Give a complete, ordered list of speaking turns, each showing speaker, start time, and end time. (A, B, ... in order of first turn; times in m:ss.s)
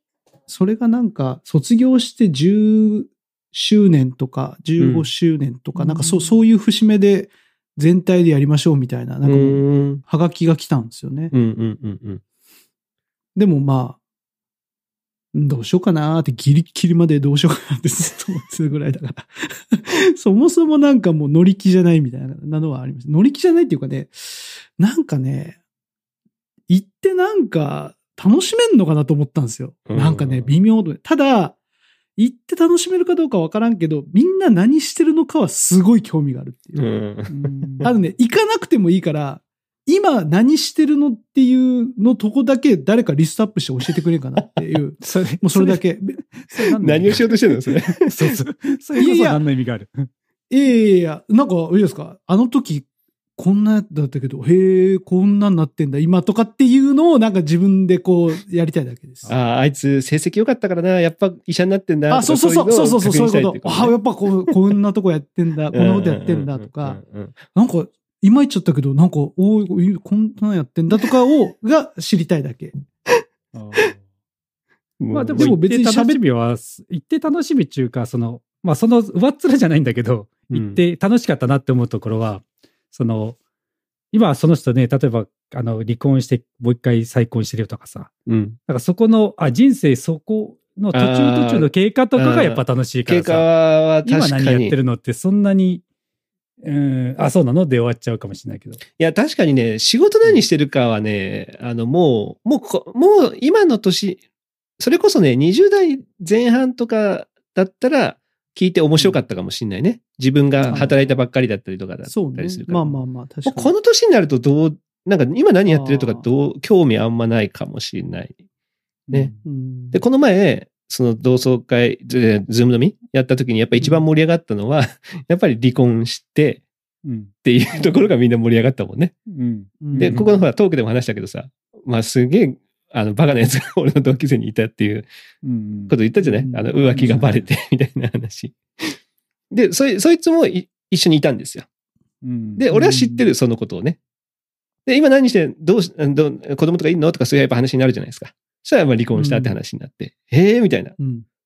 0:00.5-0:11.3 A
0:04.8-0:05.1 B
0:09.2-0:10.0 B
0:11.3-0:12.2 B
0:13.4-0:14.0 A
0:15.3-0:25.6 A
0:26.7-0:31.6 A
0:29.9-0:30.5 B
0:32.2-0:36.8 A
0:36.8-0:37.9 B
0:37.3-0:37.9 C
0:37.8-0:47.2 A
0:45.0-0:50.1 C
0:46.8-0:48.3 B
0:49.0-0:49.4 A
0:50.5-0:59.3 A
0:59.3-1:04.5 B
1:02.1-1:07.0 A
1:05.7-1:07.4 B
1:07.5-1:12.7 A
1:13.5-1:14.0 C
1:15.0-1:15.6 B
1:15.1-1:23.4 C
1:15.3-1:16.2 A
1:20.5-1:20.8 B
1:24.1-1:28.1 C
1:28.3-1:28.6 B
1:28.7-1:33.5 C
1:30.9-1:34.8 B
1:34.0-1:35.8 C
1:36.6-1:38.8 C
1:39.0-1:44.2 B
1:44.8-1:58.4 B
1:50.6-1:50.9 C
1:50.6-1:50.9 A
1:52.0-1:53.7 A
1:55.7-1:56.3 A
1:59.1-1:59.4 C
1:59.4-2:00.0 A
1:59.9-2:06.6 B
2:07.0-2:07.3 C
2:07.4-2:09.1 B
2:09.3-2:10.3 C
2:09.8-2:10.3 A
2:09.9-2:15.1 B
2:15.4-2:16.0 C
2:15.9-2:19.0 B
2:16.4-2:17.2 A
2:16.9-2:17.3 C
2:19.5-2:21.6 B
2:22.2-2:23.2 C
2:22.6-2:24.0 B
2:24.8-2:31.0 B
2:29.2-2:29.5 A
2:31.0-2:31.2 A